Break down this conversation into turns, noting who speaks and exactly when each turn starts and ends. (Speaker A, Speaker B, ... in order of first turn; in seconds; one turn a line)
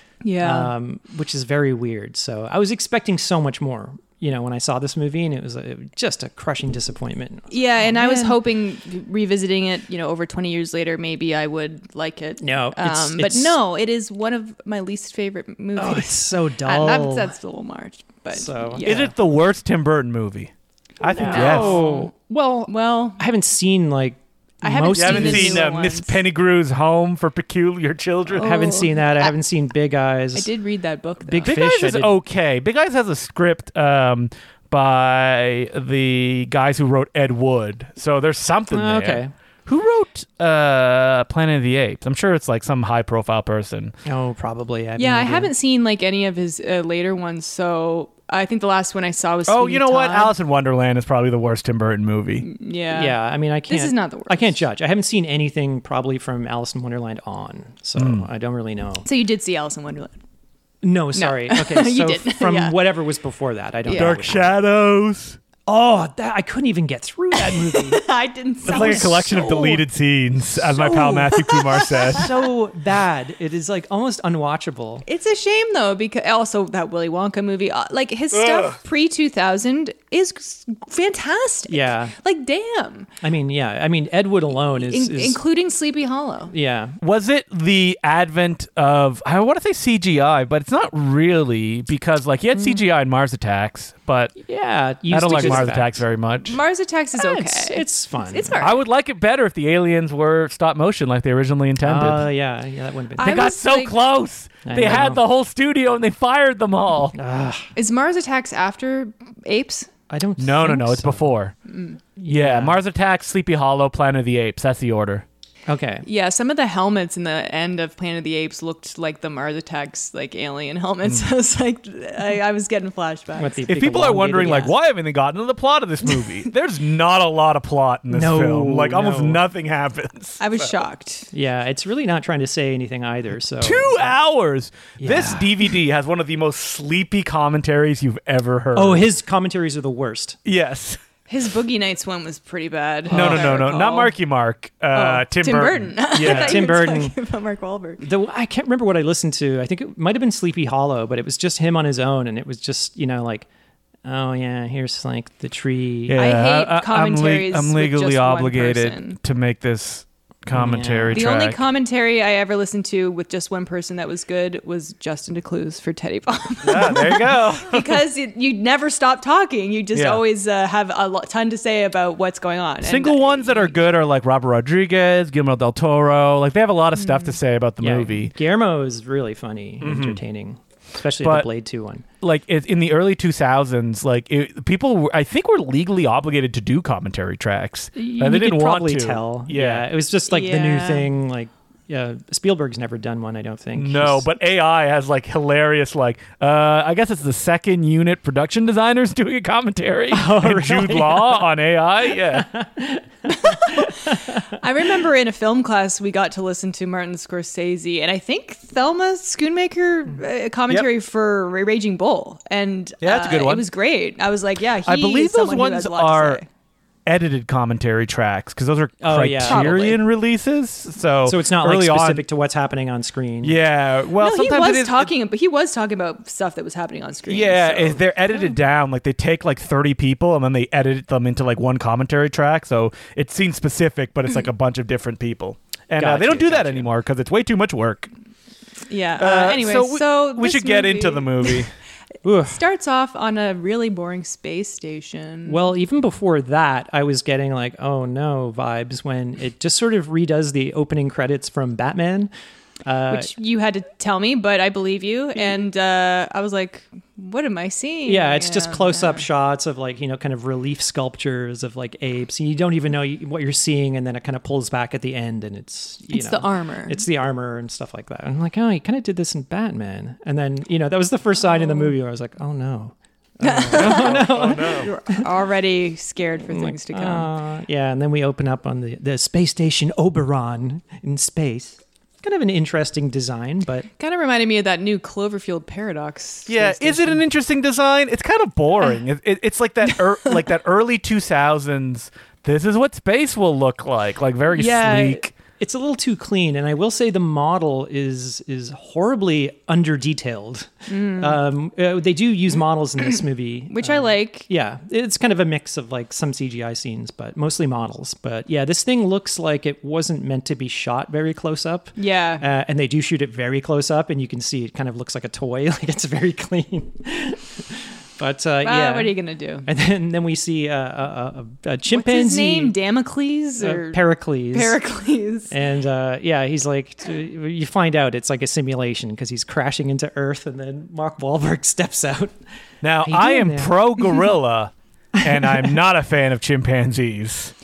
Speaker A: 0.2-0.7
Speaker B: 0.4-8.4
Speaker A: 7.5-19.1
Speaker B: 12.4-13.6
Speaker B: 15.8-17.3
Speaker B: 18.3-19.1
Speaker C: 18.8-21.8
Speaker A: 21.0-22.1
Speaker B: 21.1-25.7
Speaker A: 22.7-23.2
Speaker A: 24.6-26.2
Speaker C: 24.9-28.7
Speaker A: 28.3-29.3
Speaker B: 28.3-30.5
Speaker A: 30.3-31.6
Speaker B: 31.2-32.2
Speaker C: 31.4-43.9
Speaker B: 38.7-39.3
Speaker B: 44.0-45.5
Speaker A: 45.0-50.3
Speaker C: 49.5-52.5
Speaker A: 52.4-54.6
Speaker B: 52.9-59.0
Speaker C: 58.0-58.3
Speaker A: 59.0-60.2
Speaker B: 60.8-64.5
Speaker A: 61.1-62.8
Speaker A: 63.8-64.2
Speaker C: 63.9-65.4
Speaker B: 65.6-68.0
Speaker A: 67.3-69.8
Speaker B: 68.6-69.5
Speaker C: 68.6-72.4
Speaker A: 70.7-72.2
Speaker B: 72.1-75.0
Speaker A: 75.0-83.1
Speaker C: 78.3-78.8
Speaker B: 81.7-82.1
Speaker B: 83.2-85.4
Speaker A: 84.7-86.5
Speaker B: 86.5-87.0
Speaker C: 87.0-94.4
Speaker B: 92.5-92.8
Speaker B: 94.4-96.0
Speaker C: 95.1-96.6
Speaker A: 95.3-95.6
Speaker A: 96.4-98.8
Speaker B: 97.2-98.7
Speaker C: 98.6-102.3
Speaker B: 101.8-103.5
Speaker A: 103.2-104.0
Speaker C: 103.2-107.2
Speaker B: 104.7-105.2
Speaker B: 107.1-107.7
Speaker A: 107.8-109.9
Speaker B: 110.1-111.3
Speaker C: 110.4-111.5
Speaker A: 111.7-112.0
Speaker B: 112.2-112.8
Speaker C: 112.3-115.2
Speaker B: 115.7-116.0
Speaker A: 116.0-123.8
Speaker B: 123.4-124.7
Speaker C: 123.7-130.7
Speaker A: 124.4-124.7
Speaker A: 126.0-126.4
Speaker B: 128.1-129.4
Speaker A: 130.4-131.3
Speaker B: 131.3-134.1
Speaker C: 133.6-139.1
Speaker B: 135.0-135.8
Speaker B: 138.7-140.4
Speaker C: 140.4-141.0
Speaker A: 141.3-144.1
Speaker B: 143.1-143.6
Speaker C: 143.1-146.6
Speaker A: 144.9-148.0
Speaker B: 146.1-147.1
Speaker B: 148.0-153.5
Speaker B: 154.0-156.2
Speaker C: 156.1-161.6
Speaker A: 156.1-159.2
Speaker B: 160.5-161.2
Speaker A: 161.1-173.8
Speaker C: 166.6-168.0
Speaker C: 169.9-170.2
Speaker C: 172.8-178.3
Speaker A: 177.0-177.4
Speaker B: 177.8-182.0
Speaker C: 179.8-180.2
Speaker C: 181.2-181.5
Speaker C: 182.2-189.9
Speaker B: 187.9-194.3
Speaker A: 190.3-191.1
Speaker C: 193.8-202.5
Speaker B: 200.1-201.5
Speaker B: 202.1-204.6
Speaker A: 203.3-216.4
Speaker C: 213.0-213.7
Speaker C: 214.9-216.4
Speaker C: 217.1-222.2
Speaker B: 219.0-219.9
Speaker A: 219.4-220.0
Speaker B: 221.2-223.6
Speaker C: 223.4-225.1
Speaker A: 224.2-228.0
Speaker C: 227.3-238.1
Speaker B: 236.0-236.9
Speaker A: 238.9-241.7
Speaker C: 239.2-241.7
Speaker B: 242.2-242.6
Speaker A: 242.4-245.6
Speaker B: 245.5-252.3
Speaker B: 252.8-253.3
Speaker A: 253.1-259.2
Speaker B: 258.1-275.2
Speaker A: 266.1-267.0
Speaker A: 273.4-277.3
Speaker C: 273.7-274.9
Speaker B: 276.5-283.9
Speaker A: 284.0-287.2
Speaker C: 286.5-295.3
Speaker B: 286.8-287.2
Speaker B: 294.5-322.8
Speaker A: 300.9-301.4
Speaker A: 303.7-304.5
Speaker A: 312.0-312.4
Speaker A: 318.6-319.7
Speaker A: 321.9-325.5
Speaker B: 323.6-324.8
Speaker B: 325.5-332.4
Speaker C: 332.8-337.5
Speaker B: 333.0-334.2
Speaker B: 335.2-335.8